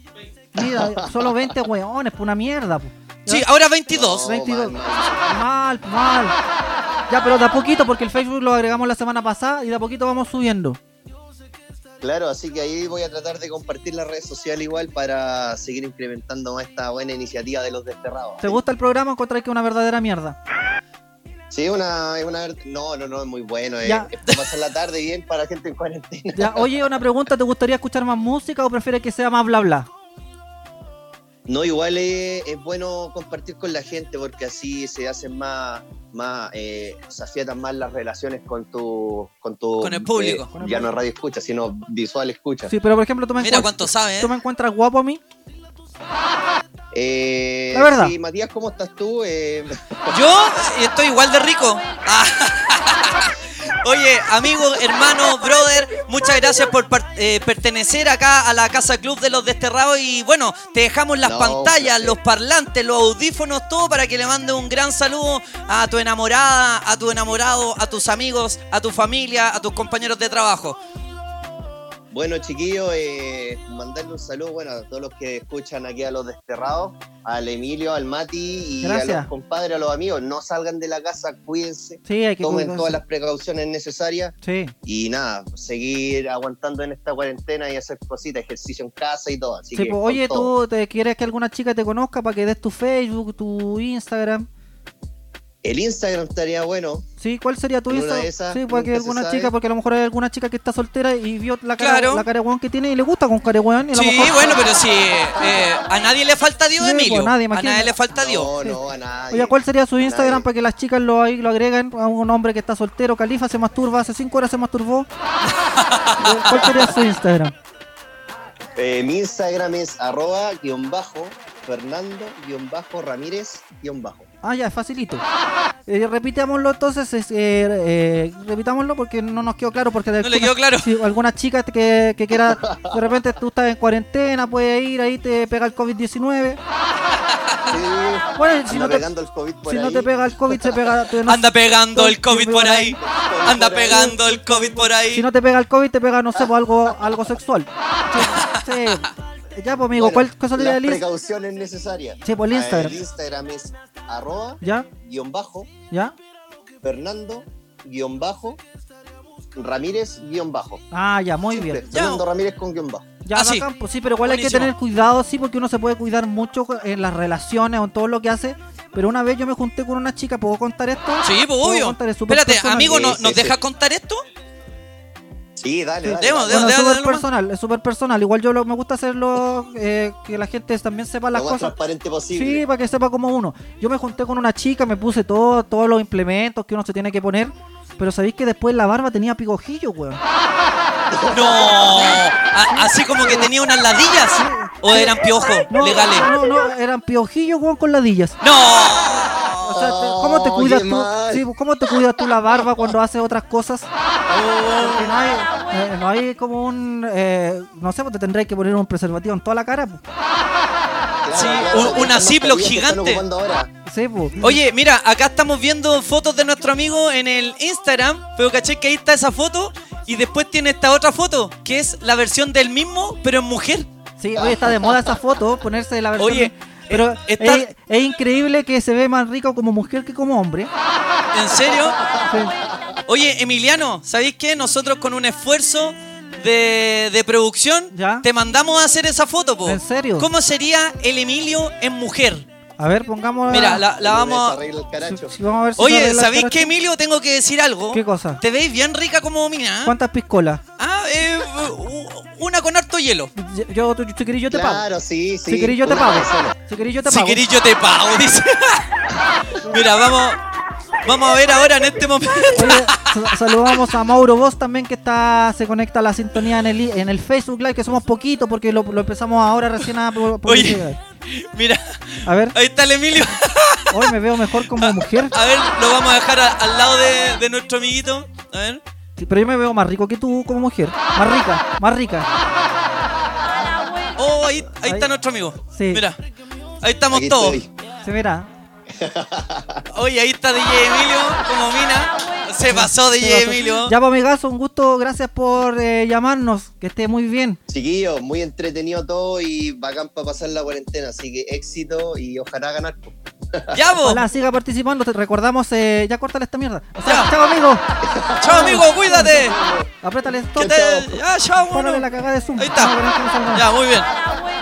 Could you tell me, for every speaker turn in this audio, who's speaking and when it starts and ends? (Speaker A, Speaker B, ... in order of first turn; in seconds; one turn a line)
Speaker A: 0.6-3.4
Speaker B: 0.6-1.5
Speaker C: 3.3-4.3
Speaker B: 3.9-5.3
Speaker A: 4.2-6.4
Speaker A: 7.1-10.8
Speaker B: 12.0-18.6
Speaker A: 18.4-20.4
Speaker B: 21.5-26.7
Speaker A: 26.4-29.9
Speaker B: 31.5-42.7
Speaker C: 39.8-40.5
Speaker A: 40.5-40.9
Speaker A: 42.7-45.2
Speaker C: 43.4-44.3
Speaker B: 46.9-50.2
Speaker A: 47.7-48.1
Speaker C: 50.1-70.8
Speaker B: 61.2-62.2
Speaker B: 72.1-90.5
Speaker A: 78.8-79.3
Speaker A: 82.0-83.0
Speaker A: 84.4-84.7
Speaker A: 89.7-94.5
Speaker B: 95.6-97.1
Speaker A: 97.2-104.7
Speaker B: 97.9-99.5
Speaker C: 101.8-102.2
Speaker C: 103.9-108.5
Speaker A: 106.8-107.9
Speaker B: 108.1-110.5
Speaker A: 109.3-115.1
Speaker C: 115.5-116.9
Speaker A: 116.2-117.5
Speaker B: 118.8-124.3
Speaker A: 124.4-125.2
Speaker A: 125.9-136.6
Speaker C: 130.2-130.9
Speaker B: 132.5-133.0
Speaker B: 137.7-140.9
Speaker A: 138.4-139.1
Speaker A: 139.7-143.0
Speaker C: 141.3-145.2
Speaker B: 142.9-144.2
Speaker A: 143.9-151.0
Speaker C: 148.2-148.6
Speaker B: 149.9-155.7
Speaker A: 152.2-153.0
Speaker A: 154.6-154.9
Speaker B: 156.8-158.6
Speaker B: 159.6-160.8
Speaker A: 160.9-161.8
Speaker B: 161.5-163.2
Speaker C: 161.9-162.2
Speaker A: 163.2-173.1
Speaker C: 163.3-163.7
Speaker C: 164.2-164.7
Speaker C: 171.2-174.2
Speaker B: 172.9-173.6
Speaker B: 175.6-176.7
Speaker A: 176.0-181.7
Speaker C: 176.2-177.2
Speaker B: 181.3-182.6
Speaker A: 182.3-190.2
Speaker B: 191.1-192.1
Speaker C: 191.3-196.3
Speaker A: 193.2-193.5
Speaker A: 194.4-195.2
Speaker A: 195.7-198.4
Speaker C: 198.4-199.7
Speaker B: 199.6-201.4
Speaker A: 199.7-203.9
Speaker C: 204.3-205.1
Speaker A: 204.8-210.0
Speaker B: 211.2-213.7
Speaker C: 211.3-213.2
Speaker A: 213.9-214.6
Speaker C: 214.4-223.9
Speaker A: 224.2-230.7
Speaker B: 224.4-225.2
Speaker C: 226.2-227.6
Speaker C: 231.3-232.0
Speaker B: 231.5-232.9
Speaker C: 233.1-242.5
Speaker A: 237.9-238.3
Speaker A: 239.7-240.3
Speaker A: 242.8-243.8
Speaker C: 243.5-244.6
Speaker B: 243.9-245.3
Speaker A: 245.0-246.7
Speaker C: 245.8-249.9
Speaker A: 247.9-248.4
Speaker A: 249.8-250.6
Speaker C: 250.8-253.3
Speaker A: 253.4-254.8
Speaker B: 254.5-256.6
Speaker A: 255.5-257.4
Speaker C: 257.1-258.9
Speaker C: 259.7-260.4
Speaker C: 261.0-262.9
Speaker A: 262.6-271.0
Speaker C: 270.5-274.0
Speaker A: 272.2-272.6
Speaker A: 273.9-275.3
Speaker C: 274.8-278.8
Speaker A: 279.2-282.3
Speaker C: 284.2-286.2
Speaker A: 285.7-286.0
Speaker C: 286.8-287.6
Speaker B: 287.1-287.7
Speaker A: 288.0-288.5
Speaker B: 288.9-289.8
Speaker C: 289.9-293.9
Speaker A: 292.7-297.6
Speaker B: 297.7-303.8
Speaker C: 303.7-304.2
Speaker A: 304.1-307.8
Speaker B: 308.0-309.9
Speaker C: 308.4-309.6
Speaker A: 308.5-309.4
Speaker A: 310.0-310.8
Speaker C: 310.6-312.1
Speaker B: 310.6-311.1
Speaker A: 311.7-313.6
Speaker C: 312.6-312.9
Speaker C: 313.5-314.1